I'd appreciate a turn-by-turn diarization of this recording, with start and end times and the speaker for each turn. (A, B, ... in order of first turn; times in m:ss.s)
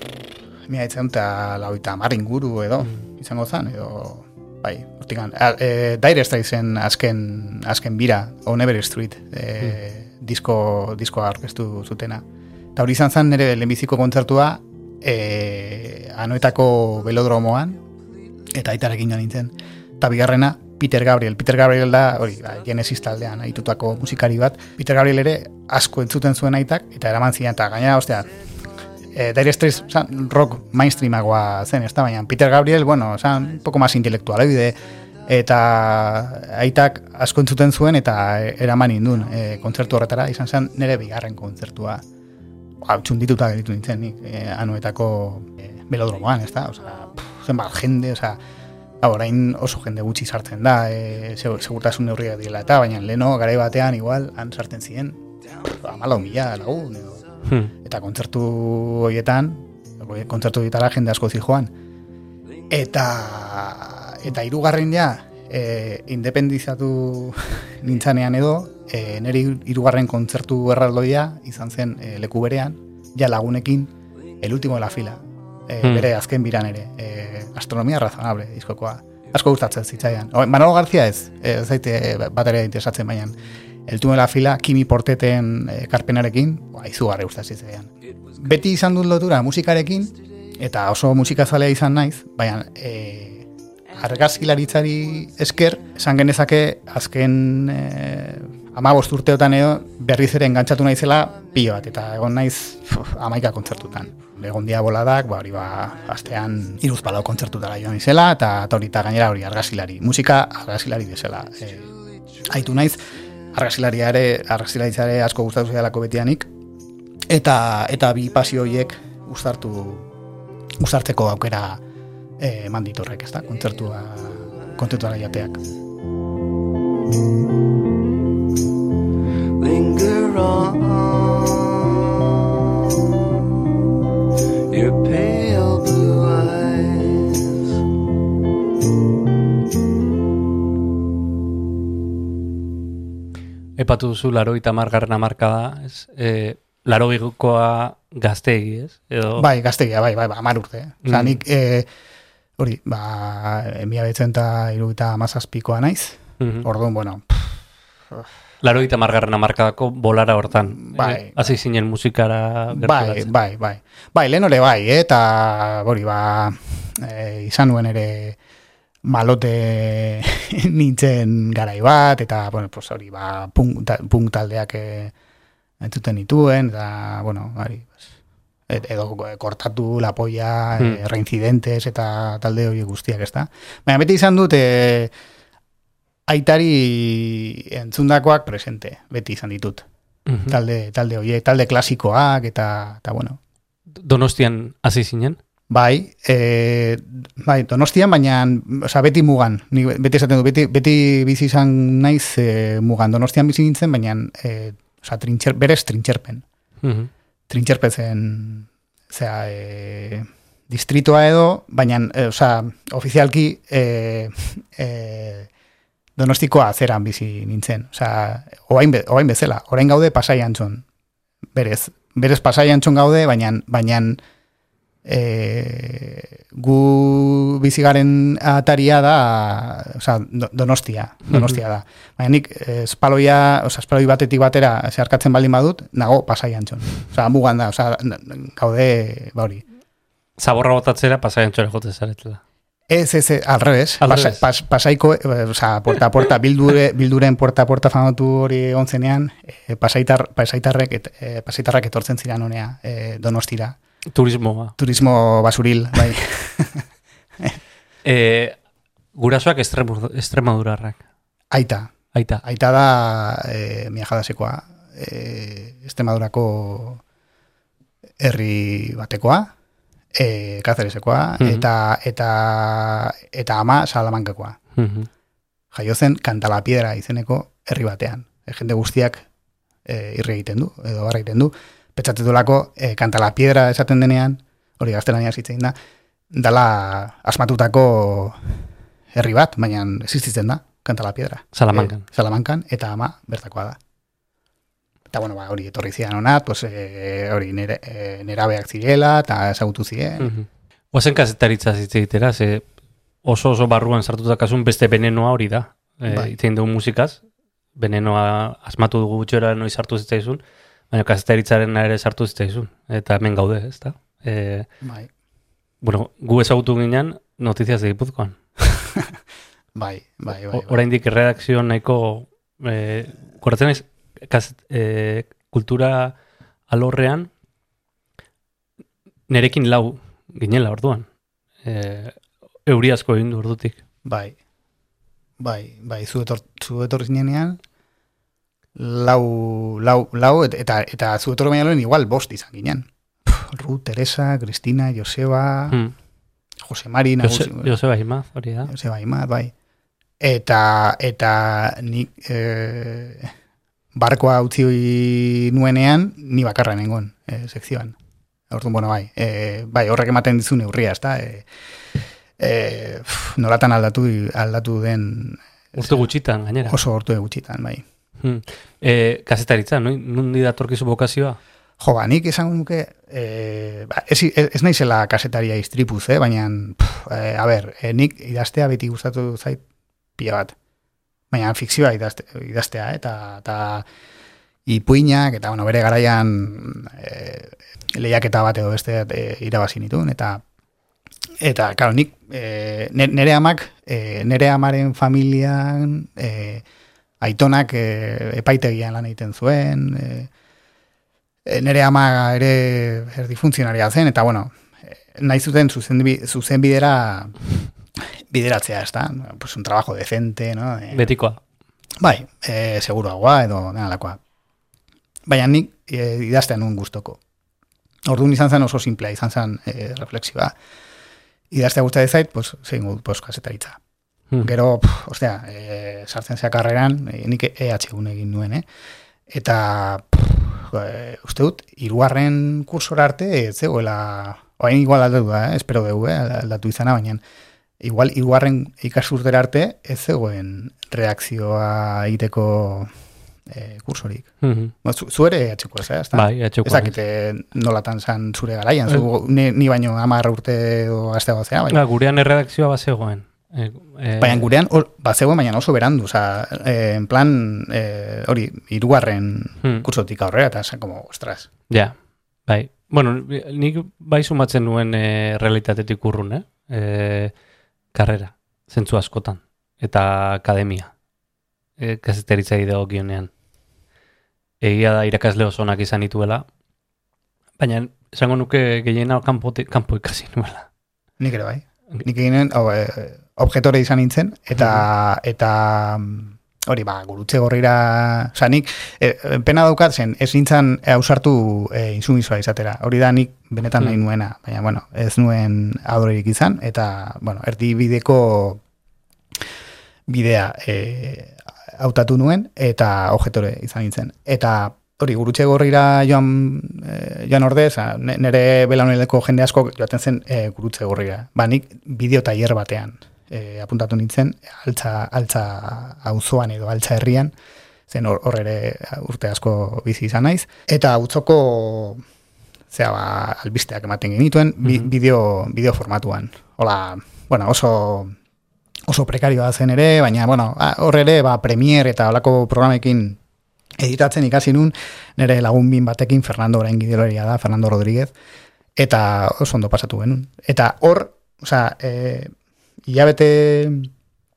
0:00.7-0:12.2 A
0:12.8-0:17.8 A
0:18.5-0:28.3 A
0:29.1-0:42.0 A
0:42.8-0:48.4 A
0:49.0-0:57.2 A
0:57.5-0:57.7 B
0:57.8-1:01.7 A
1:02.7-1:23.4 A
1:15.8-1:16.1 B
1:23.9-1:51.9 A
1:51.9-1:52.4 C
1:52.4-1:56.5 A
1:57.3-2:00.1 A
2:00.8-2:01.8 A
2:02.4-2:05.6 A
2:09.6-2:13.5 C
2:14.7-2:17.8 C
2:23.8-2:29.5 B
2:29.4-2:31.9 A
2:31.0-2:31.4 B
2:32.6-2:37.6 A
2:36.4-2:36.7 B
2:38.6-2:43.3 B
2:40.7-2:41.4 A
2:42.7-2:48.4 A
2:49.0-2:55.1 A
2:55.8-2:58.1 A
2:58.7-3:05.1 A
3:06.3-3:09.8 A
3:10.3-3:10.6 B
3:10.5-3:13.4 A
3:14.0-3:15.4 B
3:15.7-3:26.4 A
3:26.8-3:27.1 B
3:27.5-3:35.5 A
3:36.2-3:40.8 A
3:41.5-3:44.2 A
3:45.0-3:59.6 A
3:51.3-3:51.6 B
4:00.4-4:02.4 B
4:02.9-4:13.8 A
4:04.0-4:04.4 B
4:14.1-4:14.8 B
4:14.8-4:16.8 A
4:18.0-4:18.6 B
4:19.2-4:21.0 B
4:21.5-4:21.9 A
4:22.1-4:22.4 B
4:22.4-4:27.0 A
4:28.2-4:29.5 A
4:30.2-4:34.6 A
4:31.4-4:31.6 B
4:34.8-4:35.1 B
4:35.7-4:39.3 A
4:39.9-4:45.7 A
4:46.3-4:48.5 A
4:49.1-4:53.8 A
4:51.6-4:52.0 B
4:55.1-5:00.3 A
5:00.2-5:02.7 B
5:03.2-5:07.2 B
5:06.1-5:06.3 A
5:07.8-5:10.4 B
5:10.9-5:14.7 B
5:14.8-5:15.1 A
5:15.8-5:18.4 B
5:19.8-5:20.8 A
5:20.5-5:26.2 B
5:26.7-5:27.3 B
5:29.3-5:31.1 B
5:31.6-5:33.8 B
5:34.0-5:34.4 A
5:35.4-5:37.6 A
5:38.8-5:45.8 A
5:45.7-5:46.0 B
5:46.6-5:47.7 A
5:47.2-5:48.7 B
5:48.7-5:49.5 A
5:50.2-5:53.3 A
5:54.0-5:58.0 A
5:58.5-6:01.5 A
6:02.4-6:06.1 A
6:05.8-6:06.8 B
6:06.6-6:07.8 A
6:08.2-6:11.4 B
6:11.8-6:19.6 A
6:20.2-6:20.5 A
6:21.3-6:23.9 A
6:24.7-6:30.4 A
6:31.4-6:36.6 A
6:37.2-6:40.3 A
6:41.4-6:47.4 A
6:48.0-6:51.1 A
6:50.9-6:51.4 B
6:52.0-6:54.2 A
6:55.3-6:57.2 A
6:58.1-7:00.5 A
7:01.5-7:03.8 A
7:04.4-7:08.7 A
7:09.3-7:17.2 A
7:17.8-7:22.9 A
7:23.5-7:24.3 A
7:24.4-7:24.7 B
7:24.8-7:31.8 A
7:26.1-7:27.0 B
7:31.7-7:34.5 B
7:34.2-7:41.5 A
7:39.6-7:39.9 B
7:41.7-7:47.3 B
7:47.9-7:50.9 B
7:51.8-7:53.3 B
7:54.6-7:56.5 B
7:57.6-8:00.7 B
8:01.2-8:18.6 A
8:04.6-8:04.8 B
8:20.1-8:37.3 A
8:37.9-8:42.0 A
8:42.7-8:48.1 A
8:48.9-8:53.2 A
8:53.8-8:58.1 A
8:58.8-9:02.3 A
9:02.9-9:03.9 A